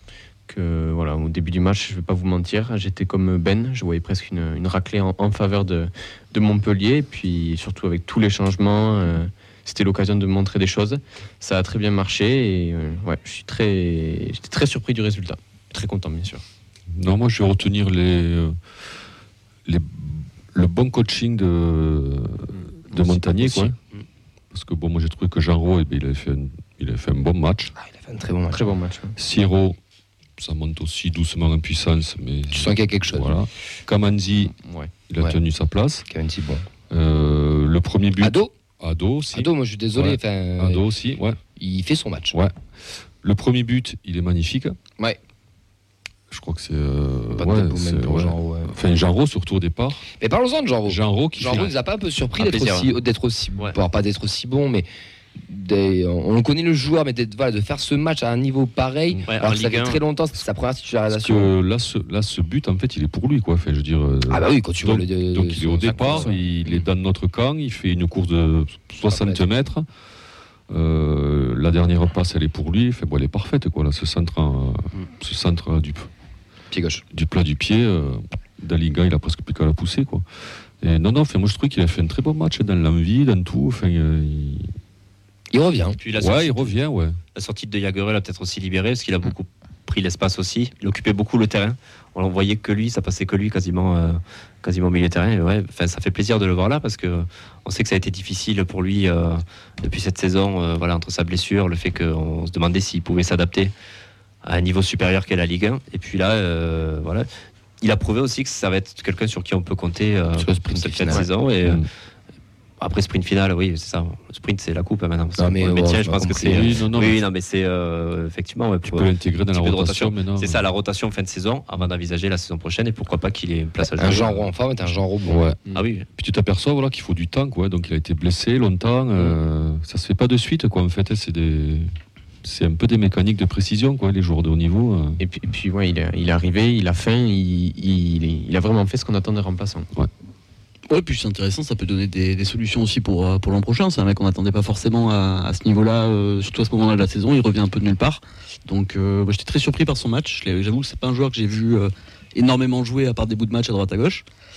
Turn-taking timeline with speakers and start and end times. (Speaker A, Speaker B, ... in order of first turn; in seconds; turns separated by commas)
Speaker A: 0.5-16.4, Speaker B: 16.9-18.6, Speaker B: 19.7-23.8, Speaker A: 22.9-23.7, Speaker B: 24.5-27.7, Speaker C: 27.8-28.7, Speaker A: 28.5-29.2, Speaker B: 29.2-29.8, Speaker B: 30.4-34.5, Speaker C: 32.5-33.4, Speaker A: 34.6-34.9, Speaker B: 35.1-36.0, Speaker C: 36.1-36.7, Speaker B: 36.9-41.4, Speaker C: 38.2-38.5, Speaker C: 39.3-40.9, Speaker C: 41.6-42.4, Speaker B: 43.2-44.8, Speaker B: 46.3-50.1, Speaker C: 47.4-48.7, Speaker C: 50.2-61.5, Speaker B: 50.9-51.7, Speaker D: 52.4-52.9, Speaker D: 59.3-60.0, Speaker B: 61.1-69.9, Speaker C: 64.3-66.9, Speaker C: 69.1-69.5, Speaker B: 70.7-76.1, Speaker C: 76.7-77.0, Speaker B: 77.1-80.2, Speaker B: 80.8-84.8, Speaker C: 85.5-86.0, Speaker D: 86.0-86.8, Speaker B: 86.2-87.2, Speaker D: 87.3-103.7, Speaker D: 104.4-107.3, Speaker D: 107.8-111.8, Speaker C: 110.3-111.3, Speaker D: 112.8-124.5, Speaker C: 115.4-116.7, Speaker B: 116.5-117.2, Speaker B: 118.8-120.7, Speaker C: 123.9-125.4, Speaker B: 125.3-125.6, Speaker D: 125.7-126.1, Speaker B: 126.1-135.2, Speaker A: 135.2-139.9, Speaker E: 140.9-154.3